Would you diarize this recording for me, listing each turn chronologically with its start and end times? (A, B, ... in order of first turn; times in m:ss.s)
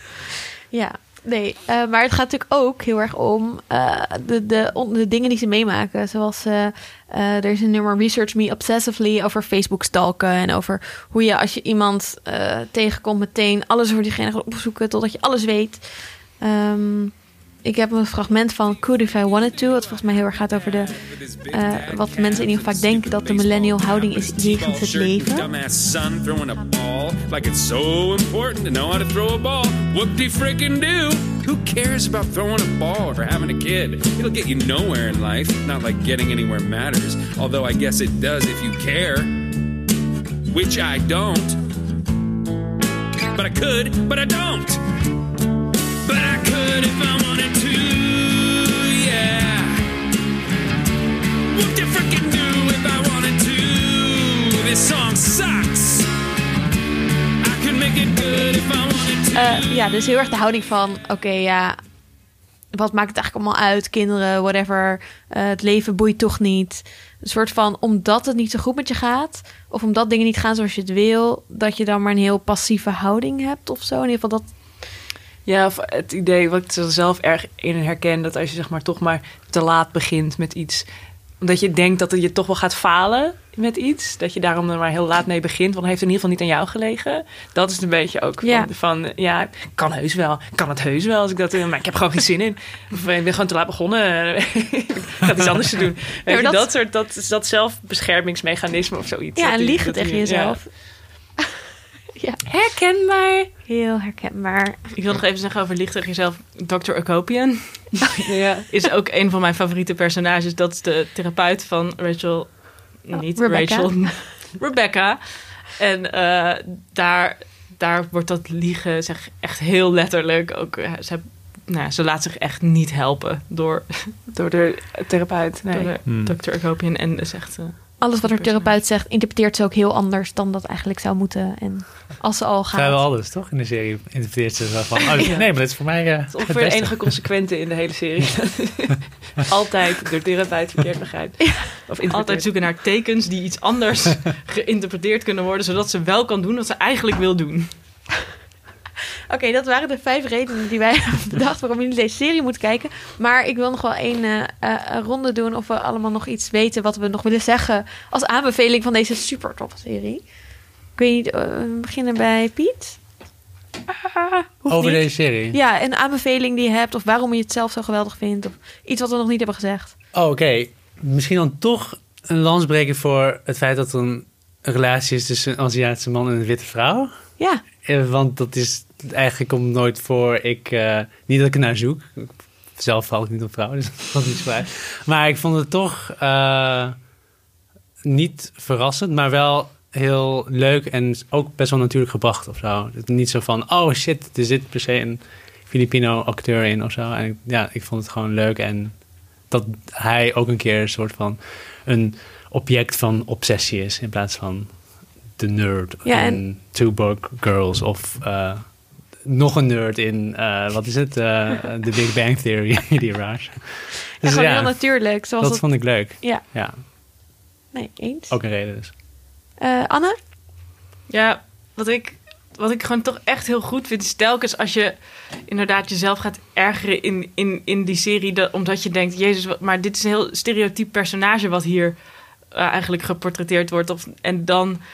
0:00.7-0:25.5 A
0:19.4-0:39.5 B
0:40.5-0:41.6 B
0:43.3-0:44.8 B
0:46.0-0:49.8 B
0:51.5-0:56.1 B
0:57.4-0:59.7 B
0:59.3-1:01.8 A
1:02.7-1:14.5 A
1:15.4-1:20.9 C
1:21.4-1:40.6 C
1:28.4-1:28.7 A
1:36.3-1:36.7 A
1:39.4-1:40.7 A
1:42.2-1:42.4 A
1:42.4-1:43.5 C
1:43.7-1:44.9 A
1:44.9-1:48.1 D
1:48.2-1:48.7 C
1:48.7-2:04.2 D
1:53.3-1:54.2 A
2:04.3-2:06.0 C
2:05.7-2:08.8 D
2:08.0-2:13.0 A
2:12.7-2:17.3 E
2:15.2-2:22.5 C
2:22.1-2:27.7 D
2:29.3-2:40.2 A
2:41.0-2:43.0 A
2:44.0-2:50.0 A
2:44.7-2:45.6 E
2:50.1-2:57.2 E
2:57.8-3:07.0 E
3:08.0-3:36.8 E
3:26.0-3:26.4 A
3:34.2-3:37.0 A
3:37.7-3:38.4 A
3:38.3-3:38.9 E
3:39.6-3:40.2 A
3:41.1-3:52.0 D
3:52.5-3:54.8 D